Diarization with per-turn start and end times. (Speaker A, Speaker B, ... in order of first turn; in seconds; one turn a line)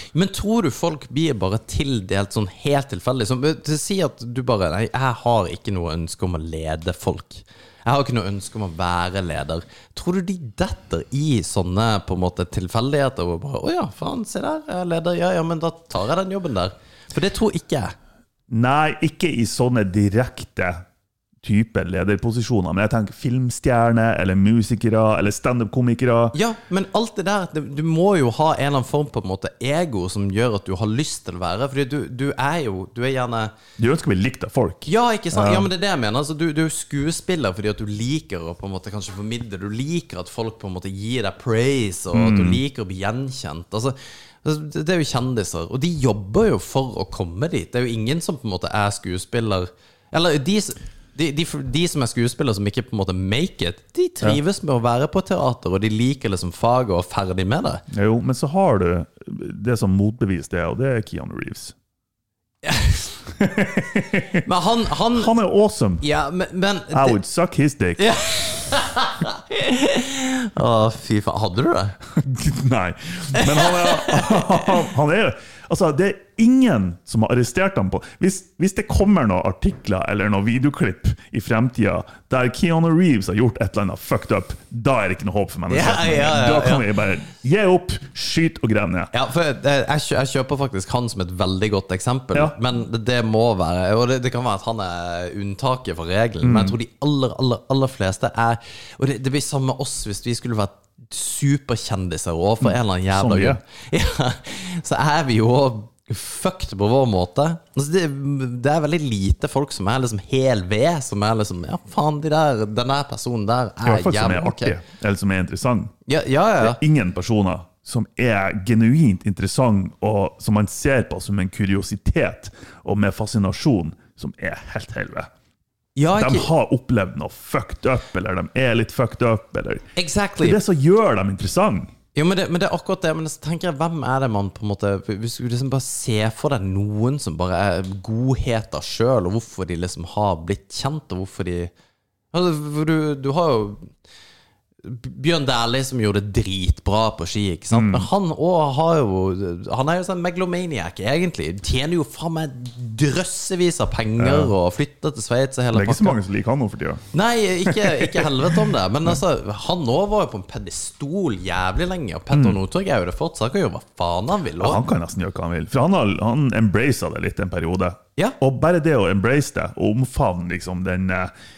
Speaker A: 0.1-17.9
Speaker B: 18.5-20.8
Speaker B: 21.4-26.3
Speaker A: 26.3-33.5
Speaker B: 33.8-35.7
Speaker A: 34.9-57.8
Speaker B: 42.1-42.6
Speaker B: 57.9-61.7
Speaker A: 62.6-63.1
Speaker B: 63.4-64.4
Speaker A: 64.4-65.3
Speaker B: 65.1-66.0
Speaker A: 66.0-67.2
Speaker B: 66.9-68.0
Speaker A: 68.0-72.0
Speaker B: 72.2-89.1
Speaker A: 73.3-74.7
Speaker A: 85.7-86.9
Speaker A: 89.1-114.8
Speaker B: 96.4-96.8
Speaker B: 102.6-103.6
Speaker B: 113.8-115.9
Speaker A: 116.1-116.8
Speaker B: 116.6-125.3
Speaker A: 126.0-126.5
Speaker B: 126.1-131.9
Speaker A: 129.9-130.6
Speaker A: 132.1-141.7
Speaker A: 142.3-143.9
Speaker A: 144.8-156.2
Speaker B: 147.7-148.1
Speaker B: 154.2-154.5
Speaker B: 155.7-157.1
Speaker A: 157.1-164.8
Speaker B: 157.6-159.2
Speaker B: 162.3-162.6
Speaker B: 164.6-171.3